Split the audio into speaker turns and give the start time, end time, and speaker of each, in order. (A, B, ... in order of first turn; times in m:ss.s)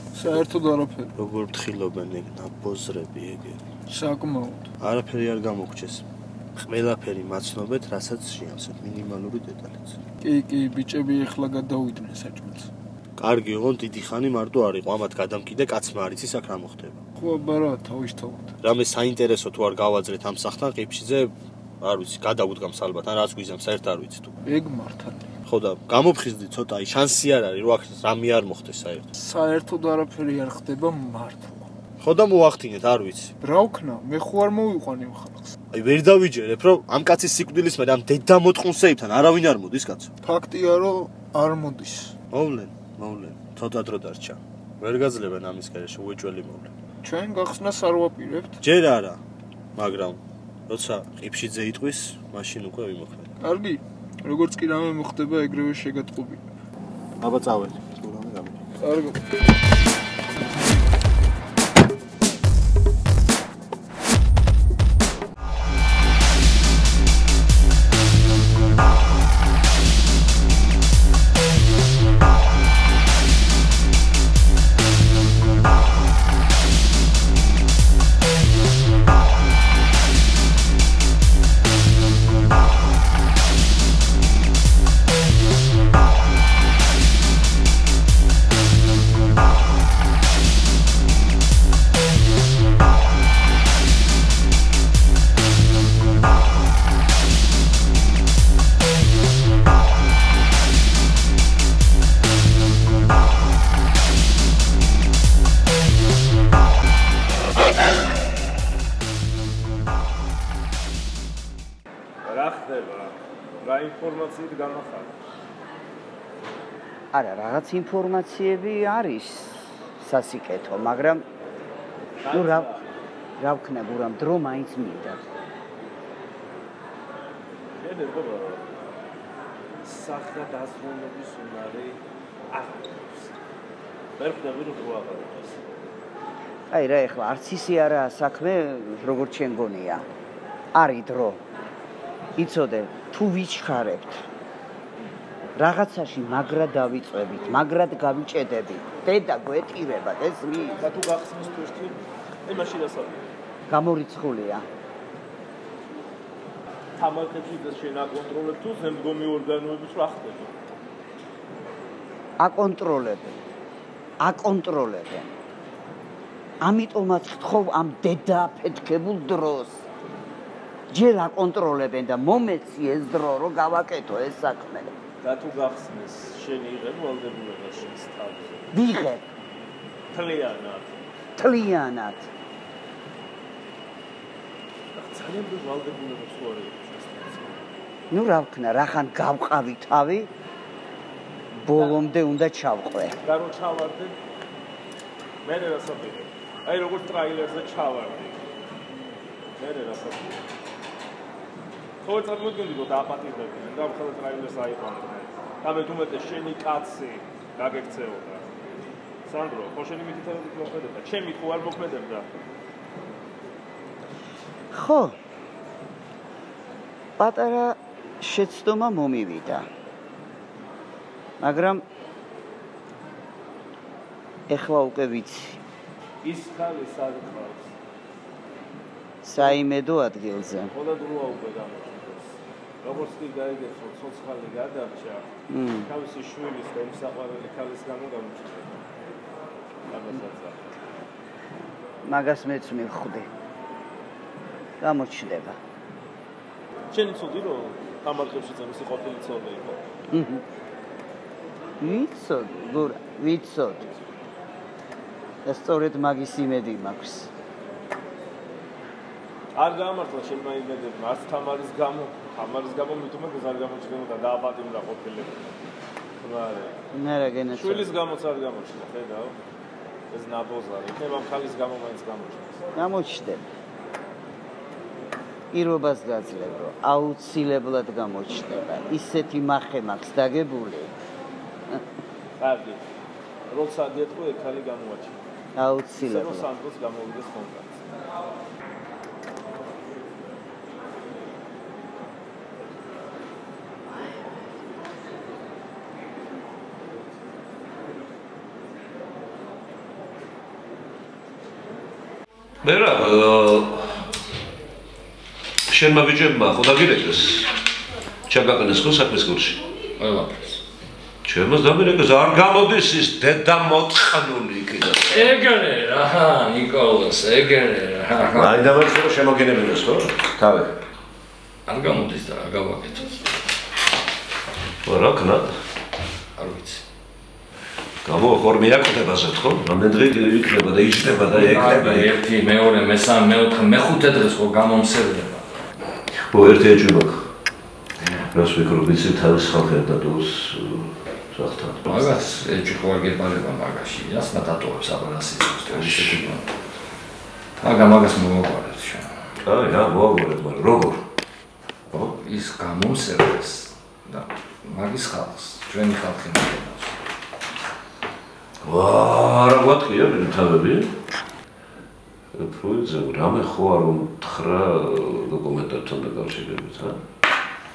0:00.1-0:01.1 A
0:01.2-0:03.7 B
0:03.9-0:04.7 A
0:04.8-0:10.0 B
0:10.2-0:12.7 A
0:13.2-0:17.0 B
0:17.2-0:18.5 A
0:18.6-0:24.3 B
0:24.4-0:25.3 A
0:25.4-0:29.0 B
0:29.1-0:31.7 A
0:32.0-0:33.3 B
0:33.4-0:35.5 A
0:35.7-0:40.1 B
0:40.2-0:42.1 A
0:42.3-0:46.7 B
0:47.0-0:48.6 A
0:48.6-0:49.2 B
0:49.8-0:53.3 B
0:53.4-0:56.5 A
0:57.2-0:58.6 B
0:58.8-0:59.2 A
1:52.2-1:55.1 C
1:57.1-2:01.2 D
2:02.2-2:02.8 C
2:02.2-2:02.7 D
2:03.4-2:05.2 D
2:07.8-2:08.7 C
2:09.8-2:13.3 C
2:14.2-2:15.6 C
2:16.7-2:20.1 D
2:20.7-2:21.4 D
2:22.4-2:24.2 D
2:25.6-2:30.8 D
2:30.8-2:33.3 C
2:33.7-2:34.6 D
2:37.0-2:40.5 C
2:42.4-2:43.4 D
2:44.2-2:45.3 D
2:46.6-2:49.8 D
2:50.9-2:54.9 D
2:55.2-2:58.7 C
2:58.7-2:59.3 D
3:00.1-3:01.0 C
3:01.4-3:02.3 D
3:04.9-3:07.6 C
3:08.1-3:10.3 D
3:11.6-3:13.2 D
3:13.2-3:14.1 C
3:15.4-3:18.4 C
3:19.6-3:20.4 C
3:22.0-3:28.5 C
3:29.2-3:32.2 C
3:34.7-3:35.1 D
3:37.2-3:39.7 D
3:41.4-3:41.8 D
3:44.5-3:45.6 D
3:46.2-3:47.7 C
3:49.2-3:50.7 D
3:49.4-3:49.6 C
3:50.7-3:55.3 C
3:55.5-3:55.9 D
3:55.8-3:58.8 C
3:59.9-4:00.6 C
4:02.0-4:03.3 D
4:04.8-4:05.6 D
4:06.9-4:09.8 C
4:10.1-4:10.4 D
4:11.8-4:13.9 D
4:15.4-4:17.3 D
4:19.6-4:25.5 C
4:26.2-4:26.8 C
4:26.9-4:27.9 D
4:27.5-4:29.3 C
4:30.1-4:32.6 C
4:32.7-4:33.5 D
4:35.5-4:40.9 D
4:42.4-4:42.8 C
4:43.5-4:45.2 C
4:45.5-4:46.5 D
4:46.0-4:47.9 C
5:02.6-5:04.0 E
5:05.7-5:07.5 E
5:08.3-5:09.6 E
5:10.0-5:10.6 F
5:11.2-5:15.4 E
5:15.1-5:18.7 F
5:18.2-5:20.7 E
5:21.6-5:23.3 F
5:24.8-5:25.5 E
5:26.4-5:26.8 F
5:28.0-5:32.1 E
5:31.3-5:35.6 F
5:36.1-5:37.3 E
5:38.1-5:42.2 E
5:41.8-5:46.5 F
5:45.7-5:46.2 E
5:47.6-5:49.4 F
5:49.4-5:51.0 E
5:51.9-5:57.0 F
5:58.6-6:00.9 E
6:02.3-6:07.0 E